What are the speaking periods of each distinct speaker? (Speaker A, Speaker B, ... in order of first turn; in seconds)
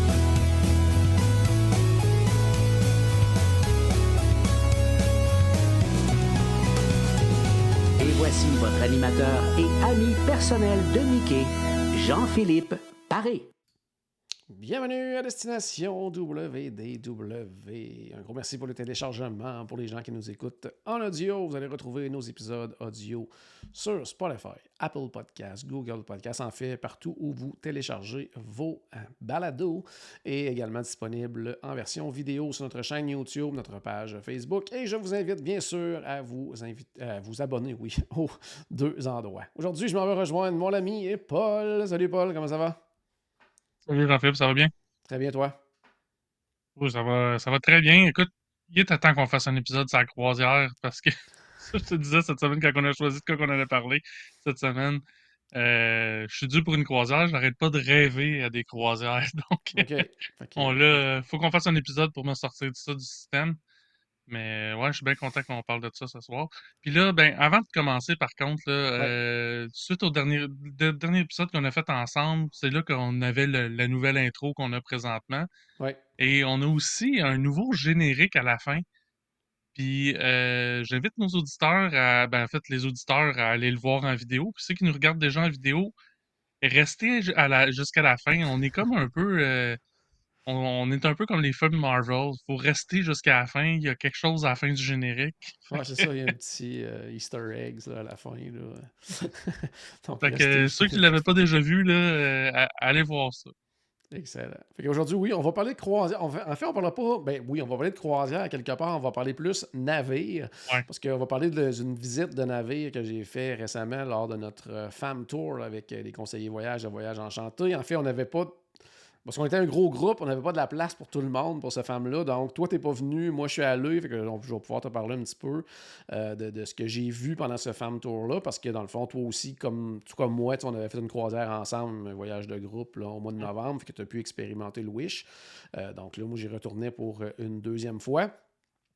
Speaker A: 8.0-13.5
Speaker B: 14.5-42.8, 45.1-45.6, 59.7-60.9, 95.7-101.2, 104.1-118.6, 119.2-138.3
Speaker C: 43.9-44.7, 46.8-63.6, 64.3-75.5, 76.2-78.8, 79.7-85.9, 86.6-89.8, 90.5-96.1, 100.2-103.5